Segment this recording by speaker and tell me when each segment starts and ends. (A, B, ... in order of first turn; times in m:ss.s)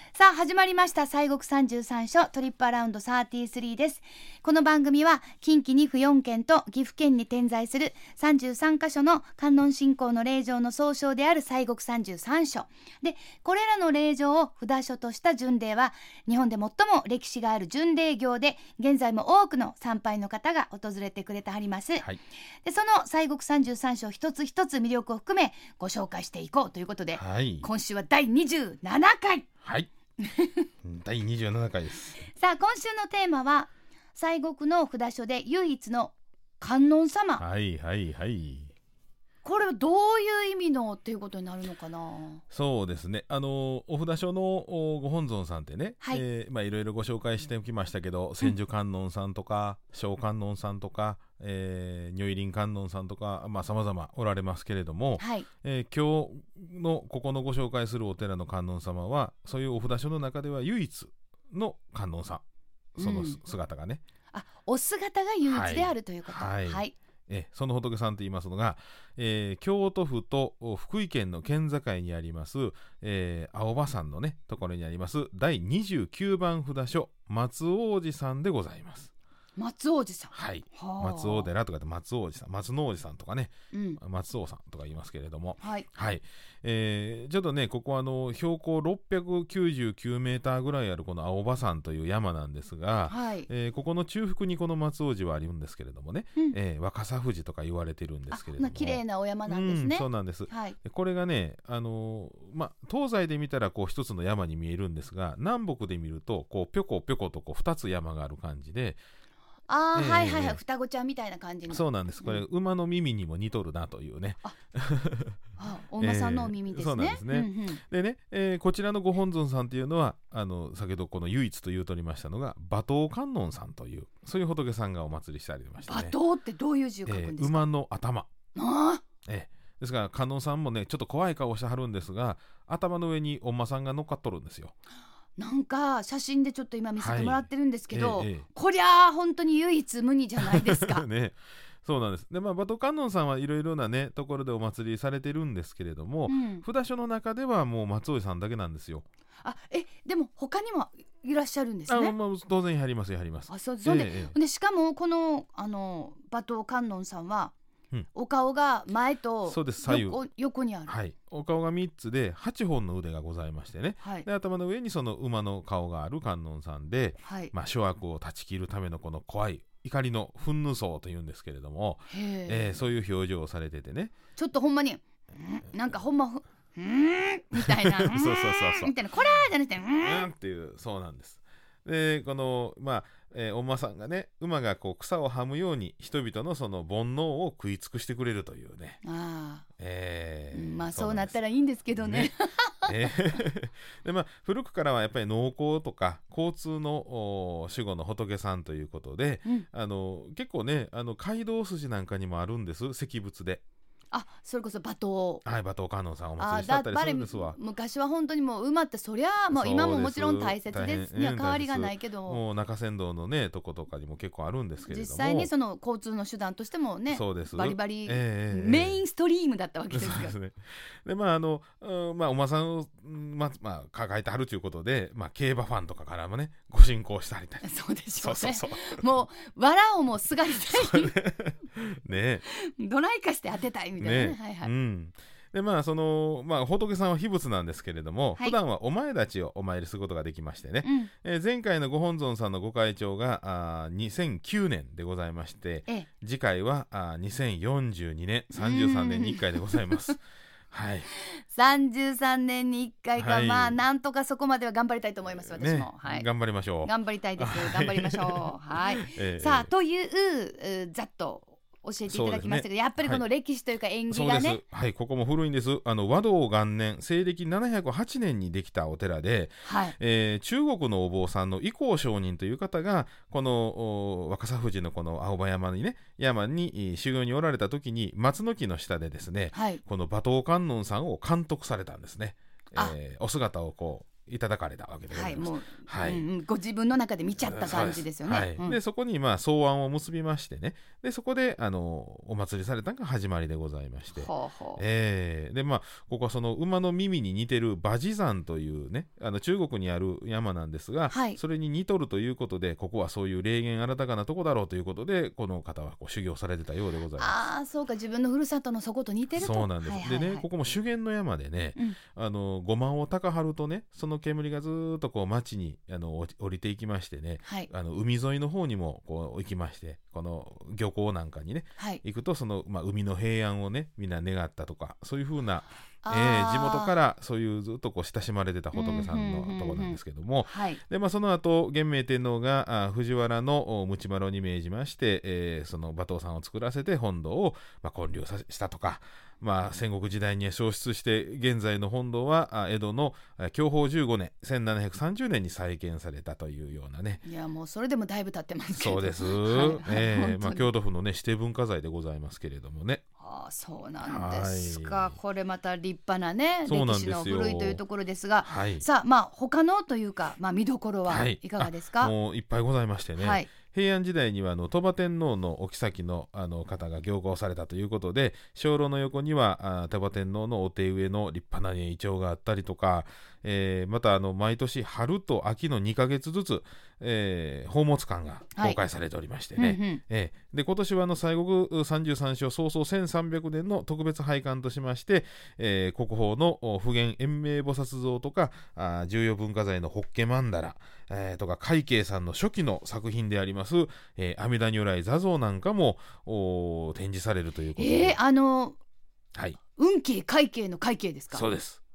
0:00.1-0:22.1 A
0:22.6-0:29.5 A
0:27.1-0:27.7 B
0:29.6-0:29.9 B
0:30.2-0:30.7 A
0:30.8-0:32.2 B
0:32.2-0:37.4 A
0:37.4-0:38.7 B
0:39.4-0:42.4 A
0:42.5-1:02.4 B
0:55.2-0:55.5 A
1:03.0-1:04.0 B
1:03.0-1:03.4 A
1:04.3-1:06.9 A
1:05.4-1:19.1 B
1:19.6-1:21.5 A
1:20.3-1:49.0 B
1:23.7-1:24.0 A
1:25.6-1:25.9 A
1:33.1-1:33.5 A
1:38.3-1:40.8 A
1:49.7-1:52.4 A
1:49.9-1:50.6 B
1:51.7-1:55.4 B
1:55.6-1:57.8 A
1:56.0-2:06.2 B
2:05.8-2:07.6 A
2:07.0-2:08.3 B
2:08.5-2:09.0 A
2:09.2-2:14.7 B
2:15.4-2:21.0 A
2:17.0-2:18.4 B
2:20.4-2:29.0 B
2:26.3-2:26.6 A
2:29.4-2:32.2 A
2:31.9-2:34.4 B
2:33.5-2:37.5 A
2:38.1-2:40.9 A
2:39.5-2:40.2 B
2:40.9-2:54.1 B
2:44.0-2:44.3 A
2:47.2-2:47.5 A
2:52.1-2:52.7 A
2:54.4-3:00.3 A
2:57.6-2:58.9 B
3:00.0-3:09.0 B
3:09.0-3:09.6 A
3:09.8-3:11.4 B
3:10.5-3:13.1 A
3:12.0-3:12.3 B
3:12.8-3:23.6 B
3:24.1-3:25.4 A
3:25.4-3:27.6 B
3:26.4-3:32.4 A
3:29.5-3:35.5 B
3:34.9-3:40.3 A
3:37.1-3:39.0 B
3:39.9-3:49.0 B
3:47.6-3:51.1 A
3:50.7-3:52.4 B
3:52.5-3:54.7 A
3:54.0-4:10.2 B
4:00.8-4:01.1 A
4:08.5-4:10.2 A
4:10.7-4:11.1 B
4:11.1-4:16.3 A
4:13.2-4:13.8 B
4:15.4-4:19.7 B
4:16.8-4:24.6 A
4:22.1-4:23.2 B
4:24.1-4:46.2 B
4:29.6-4:30.0 A
4:39.5-4:39.8 A
4:45.1-4:48.8 A
4:47.4-5:07.4 B
4:54.1-4:54.8 A
5:01.1-5:01.4 A
5:07.2-5:10.4 A
5:09.3-5:47.2 B
5:17.4-5:17.7 A
5:26.0-5:26.9 A
5:28.7-5:30.8 A
5:47.2-5:50.7 A
5:48.7-5:53.0 B
5:53.2-6:02.1 A
5:54.0-5:55.2 B
5:56.6-5:57.8 B
5:58.4-5:58.8 B
6:01.1-6:38.2 B
6:03.2-6:03.5 A
6:19.6-6:20.0 A
6:37.8-6:38.8 A
6:39.3-6:39.6 B
6:39.8-6:41.5 A
6:41.3-6:41.8 B